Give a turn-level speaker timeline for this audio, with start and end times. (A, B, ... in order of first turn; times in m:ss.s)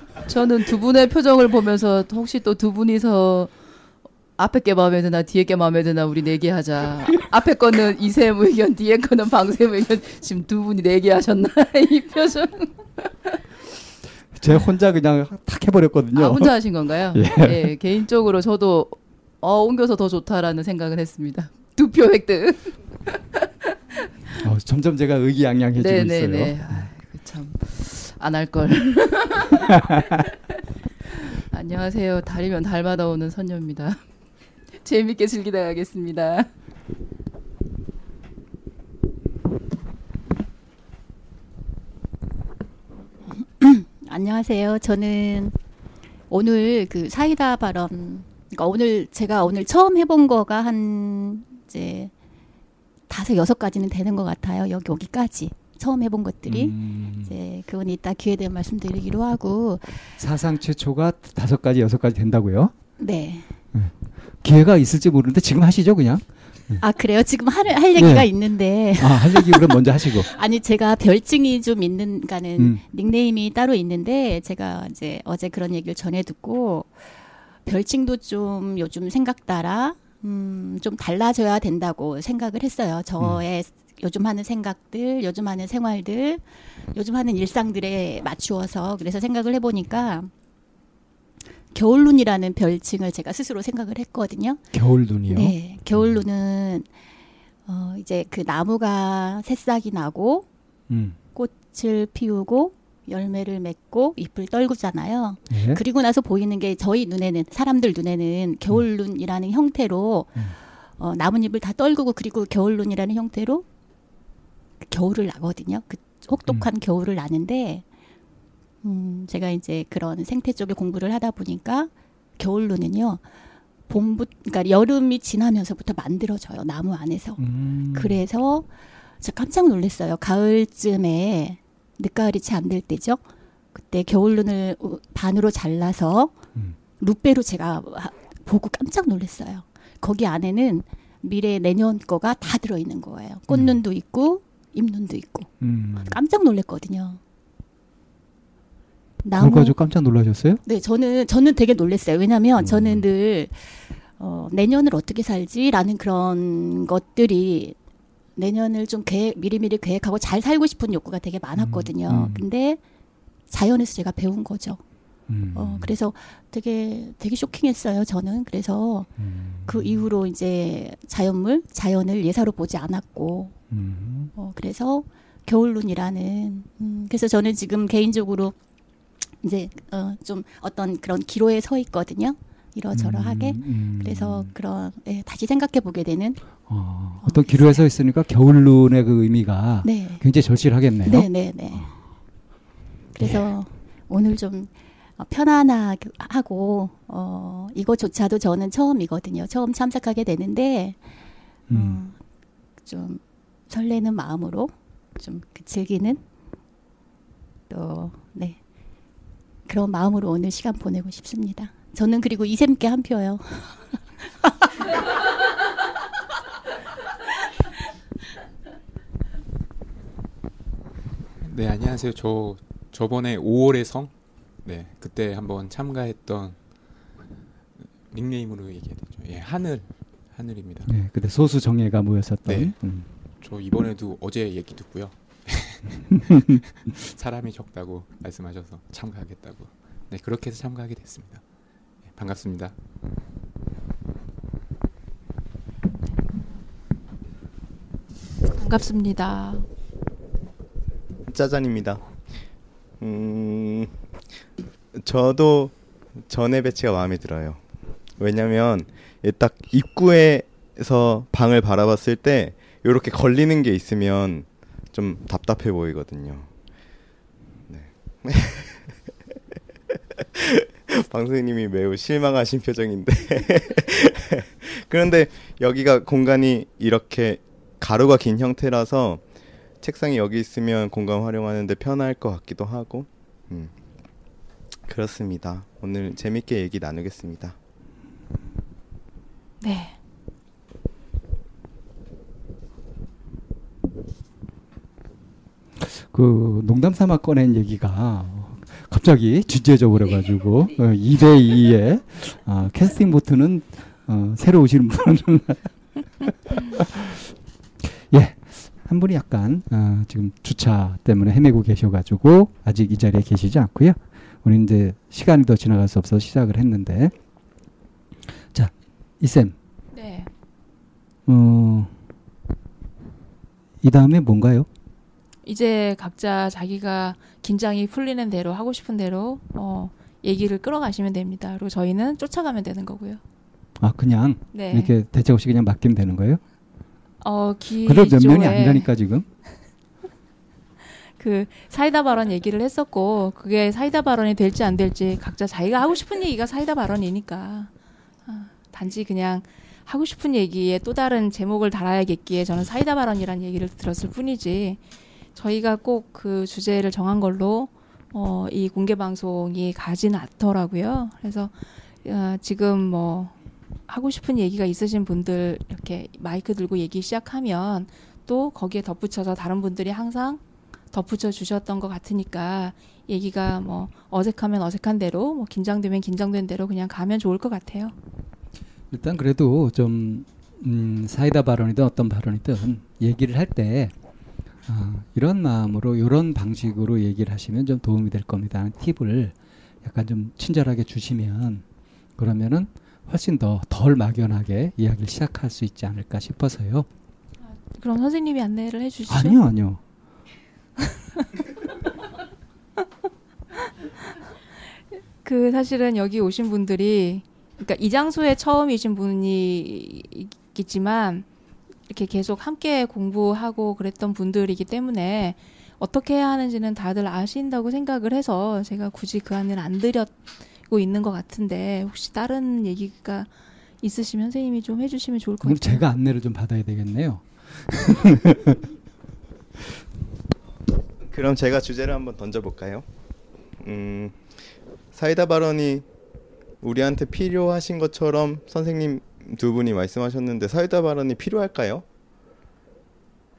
0:00.2-0:03.5 A
0:04.4-0:13.1 A
0:14.4-0:17.8 B
0:16.2-0:23.2 A
0:24.4-0:26.9 B
0:25.8-0:30.2 A
0:31.5-0:34.0 A
0:34.8-0:36.5 A
0:43.4-0:45.6 C
0:46.3-0:52.1 C
0:53.1-1:00.1 C
0:56.5-0:57.4 B
1:00.2-1:02.7 B
1:03.0-1:03.5 C
1:03.7-1:06.8 B
1:06.8-1:17.0 C
1:08.0-1:08.3 B
1:09.0-1:10.3 B
1:12.6-1:12.8 B
1:17.6-1:30.3 C
1:31.7-1:34.6 C
1:34.7-1:36.2 B
1:35.3-1:36.9 C
1:37.7-1:40.5 C
1:40.9-1:41.2 B
1:41.4-1:53.6 C
1:45.5-1:45.8 B
1:54.8-1:57.9 C
1:58.8-2:03.2 C
2:03.9-2:16.4 C
2:07.4-2:08.2 B
2:17.0-2:25.5 C
2:23.5-2:23.8 B
2:25.6-2:26.2 B
2:26.0-2:27.2 C
2:29.2-2:29.8 C
2:29.4-2:30.6 B
2:30.6-2:37.8 C
2:32.6-2:33.0 B
2:38.4-2:42.8 C
2:41.6-2:42.4 B
2:43.5-2:44.8 C
2:45.3-2:45.9 B
2:45.5-2:49.1 C
2:49.2-2:50.0 B
2:49.7-2:53.6 C
2:53.7-2:54.3 B
2:54.4-2:58.6 C
2:59.4-3:06.6 C
3:02.9-3:04.5 B
3:06.6-3:11.9 B
3:07.2-3:07.8 C
3:09.8-3:10.2 C
3:11.0-3:12.0 C
3:13.2-3:21.1 C
3:13.2-3:13.5 B
3:21.7-3:22.0 B
3:21.7-3:22.2 C
3:22.8-3:26.2 C
3:27.7-3:28.6 C
3:29.7-3:34.5 C
3:41.4-3:44.1 D
3:44.6-3:46.6 D
3:48.1-3:50.9 D
3:50.9-3:53.1 B
3:52.5-3:52.8 D
3:53.4-4:01.4 D
4:02.1-4:02.8 D
4:08.6-4:09.7 E
4:11.3-4:12.1 F
4:13.0-4:14.0 F
4:15.0-4:17.6 F
4:18.2-4:26.5 F
4:27.7-4:28.9 F
4:30.4-4:39.2 F
4:39.8-4:43.7 F
4:44.9-4:47.6 F
4:49.6-4:50.0 E
4:55.8-5:07.3 B
5:07.8-5:17.1 B
5:18.5-5:19.6 B
5:19.9-5:20.3 E
5:21.3-5:22.0 B
5:23.8-5:24.7 B
5:25.5-5:33.2 E
5:33.8-5:36.4 B
5:34.5-5:34.9 E
5:37.2-5:38.9 E
5:37.8-5:39.3 B
5:41.2-5:47.7 E
5:48.3-5:54.8 E
5:55.4-6:03.4 E
6:03.9-6:10.4 E
6:10.9-6:18.0 E
6:18.9-6:23.9 B
6:24.7-6:31.6 B
6:32.2-6:36.9 B
6:37.4-6:39.4 E
6:39.1-6:39.8 B
6:45.2-6:51.3 E
6:51.9-7:03.3 E
7:03.8-7:05.8 E
7:05.4-7:08.6 B
7:11.0-7:12.9 F
7:13.6-7:14.4 F
7:14.9-7:15.9 F
7:16.6-7:21.8 F